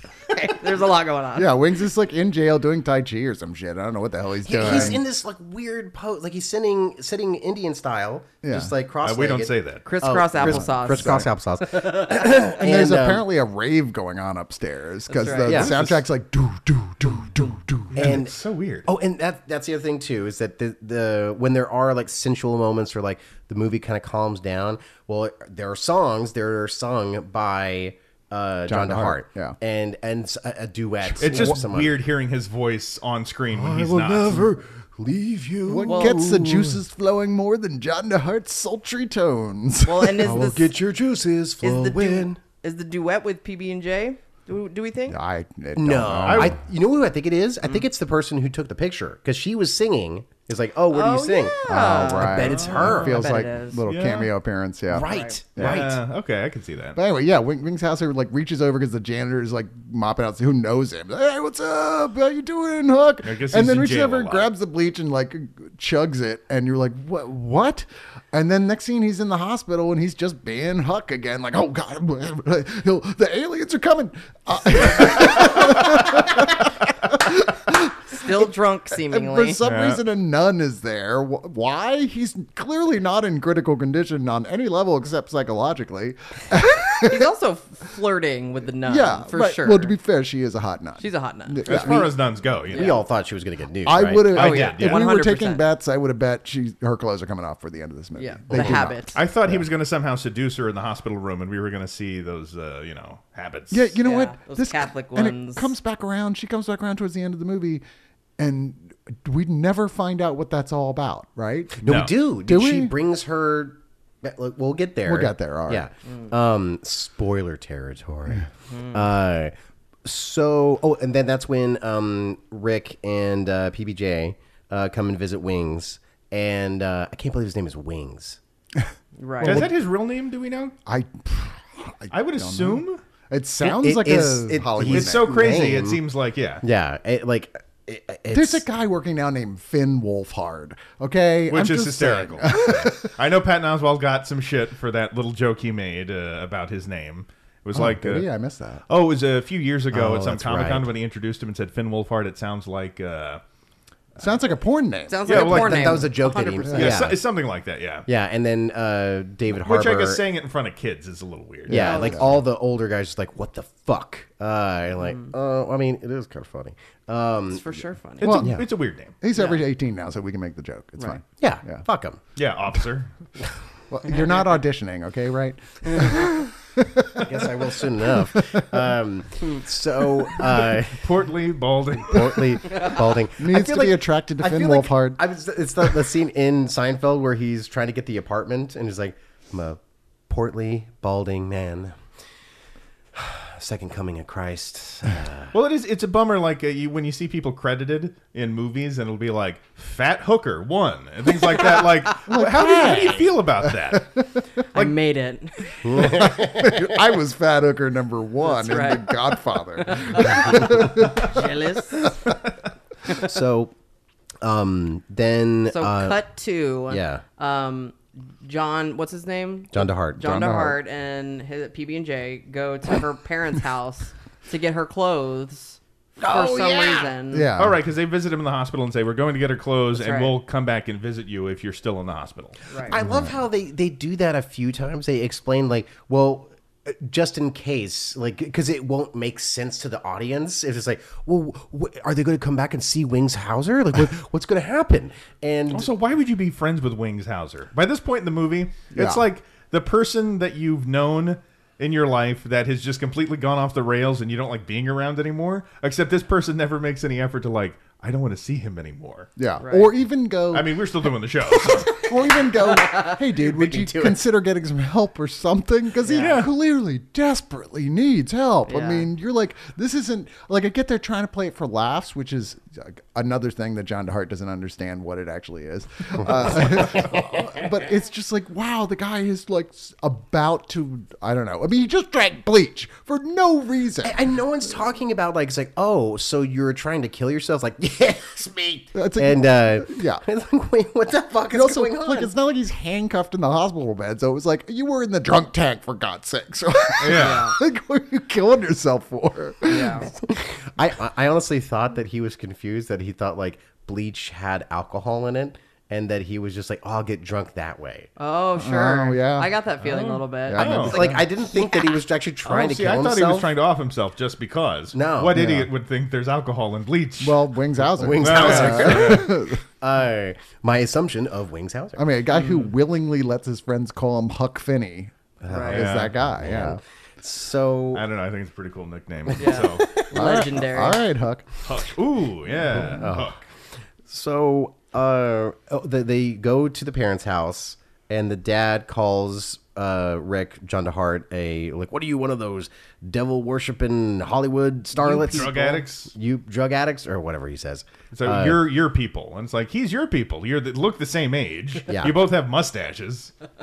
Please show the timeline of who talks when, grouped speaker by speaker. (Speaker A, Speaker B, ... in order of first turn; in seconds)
Speaker A: 0.3-1.6, 9.8-11.3, 15.1-15.7, 35.8-36.2, 39.8-40.7, 41.6-45.2, 50.9-53.8, 55.0-55.4, 78.1-79.6, 86.9-89.9, 91.0-91.7, 92.7-93.0, 94.3-95.7, 98.2-99.2, 104.0-105.7, 118.7-119.1, 129.2-129.6, 155.1-156.9, 161.8-162.3, 165.0-165.3, 167.5-168.3, 169.3-169.6, 204.7-206.2, 208.4-209.2, 209.8-212.3, 215.7-227.5, 229.9-230.3, 232.7-232.9, 259.6-259.9, 266.1-266.3, 268.7-269.1, 297.1-297.6, 299.7-300.1, 308.2-311.9, 322.3-322.7, 325.5-325.8, 329.4-331.0, 345.0-345.7
Speaker B: 1.3-5.0, 8.4-8.7, 10.4-11.3, 12.1-18.2, 28.7-29.6, 31.1-31.6, 35.6-40.5, 45.1-46.6, 51.6-55.9, 56.9-87.3, 88.8-92.1, 93.8-99.7, 103.7-107.8, 108.4-112.9, 115.0-115.9, 129.4-129.8, 130.8-135.5, 138.3-143.1, 147.7-148.8, 154.2-155.4, 161.7-162.4, 168.2-171.8, 173.9-178.9, 183.4-185.2, 185.8-186.1, 202.3-204.4, 205.9-211.4, 220.2-220.8, 227.3-227.8, 232.9-233.4, 248.9-249.2, 259.4-260.8, 261.8-284.2, 288.9-290.2, 291.5-300.1, 308.6-309.5, 310.4-311.2, 315.3-315.7, 317.2-319.6, 321.9-326.8, 330.1-331.5
Speaker C: 4.4-13.2, 15.4-15.9, 18.0-32.0, 33.5-36.8, 40.2-42.4, 45.8-53.2, 54.9-56.0, 91.8-92.1, 92.7-94.5, 98.5-98.8, 111.8-119.5, 120.0-128.4, 133.6-136.0, 136.6-138.6, 149.9-150.9, 155.3-157.2, 158.1-160.2, 161.7-168.7, 171.4-172.2, 177.2-181.1, 182.0-192.0, 193.1-195.5, 205.8-206.9, 213.1-213.7, 214.4-216.2, 216.9-217.2, 219.7-220.2, 226.2-227.1, 232.8-245.9, 263.4-264.2, 276.5-277.5, 284.0-292.3, 300.1-308.1, 310.6-313.5, 314.9-315.4, 317.9-322.0, 325.4-328.0, 332.7-333.4, 334.1-348.6, 351.9-352.2
Speaker D: 4.6-4.9, 9.0-9.9, 17.9-18.9, 31.2-34.5, 46.2-46.5, 52.4-53.1, 53.8-54.3, 55.6-57.0, 63.2-64.5, 79.6-80.0, 91.6-92.9, 94.3-95.0, 99.1-103.9, 111.8-112.1, 129.4-130.7, 132.1-133.0, 134.9-136.6, 141.5-148.3, 148.9-153.4, 155.2-156.1, 156.7-158.1, 159.5-162.0, 168.2-169.1, 172.3-173.1, 180.9-182.3, 195.5-204.1, 227.6-232.6, 245.7-259.3, 260.5-262.0, 266.1-266.5, 297.0-297.5, 309.8-310.9, 312.4-317.6, 318.2-319.3, 325.7-326.1, 327.9-329.9, 331.6-333.4, 345.2-346.1, 348.1-353.3